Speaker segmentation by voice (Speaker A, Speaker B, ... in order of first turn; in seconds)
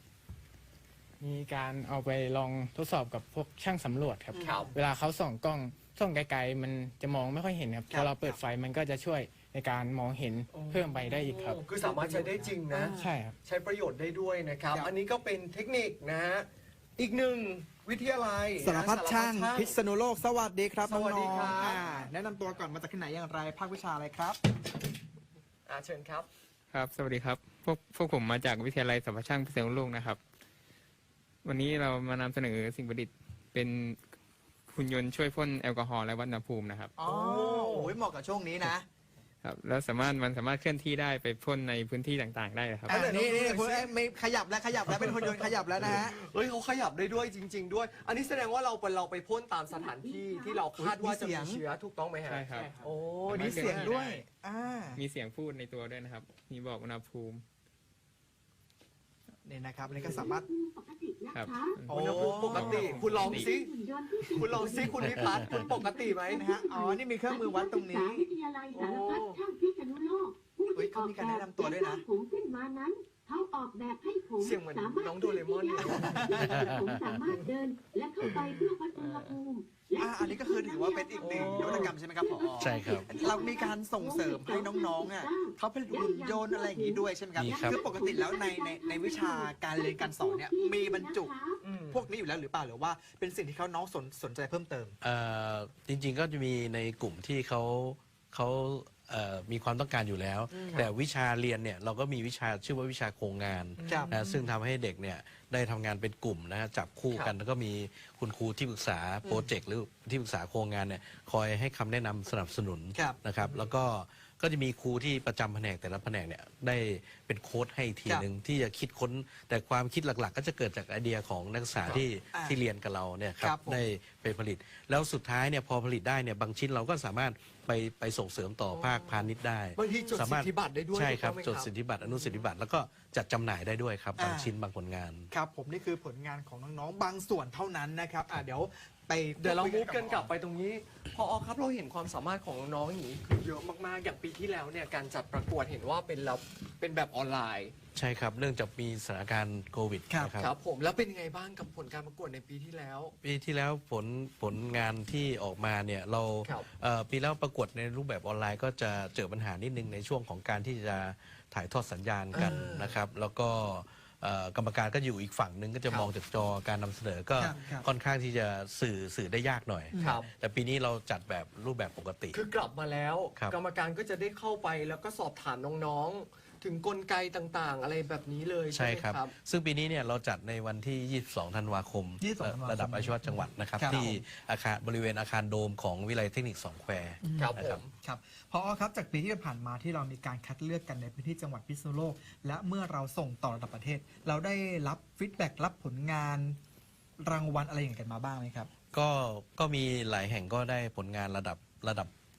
Speaker A: 1.2-11.6, 12.9-13.3
Speaker B: 4.3-4.7, 7.9-8.4, 11.8-13.1, 18.6-24.4, 37.0-38.9, 42.9-46.2, 50.8-51.6, 53.3-55.0, 59.4-60.4, 61.9-63.2, 66.3-68.3, 70.7-72.0, 75.8-76.5, 80.0-91.3, 91.9-95.0, 100.5-100.8, 103.8-104.2, 122.3-122.6, 123.4-123.8, 134.2-134.5, 135.3-140.3, 150.1-150.3, 162.3-162.7, 167.4-167.8, 169.9-170.2, 182.2-184.2, 187.2-196.6, 197.2-198.7
Speaker C: 4.4-4.7, 10.5-19.7, 20.8-21.8, 25.6-26.3, 37.0-37.9, 42.9-43.9, 44.9-54.1, 61.9-63.7, 64.3-66.4, 68.7-69.4, 74.4-76.7, 78.2-78.7, 81.2-81.9, 91.6-92.0, 103.8-104.5, 113.4-113.8, 128.7-131.7, 139.4-147.7, 150.4-153.1, 162.3-163.0, 170.0-170.3, 172.3-179.3, 187.3-187.9
Speaker D: 26.7-30.2, 31.4-34.0, 34.7-36.9, 39.4-42.9, 52.3-54.0, 55.0-57.4, 61.3-63.5
Speaker E: 49.7-50.6, 60.0-61.8, 63.0-91.6
Speaker F: 76.4-77.2, 82.6-83.1, 87.3-87.8, 95.0-135.3, 147.9-150.5, 153.2-172.4, 178.7-187.8, 198.9-202.1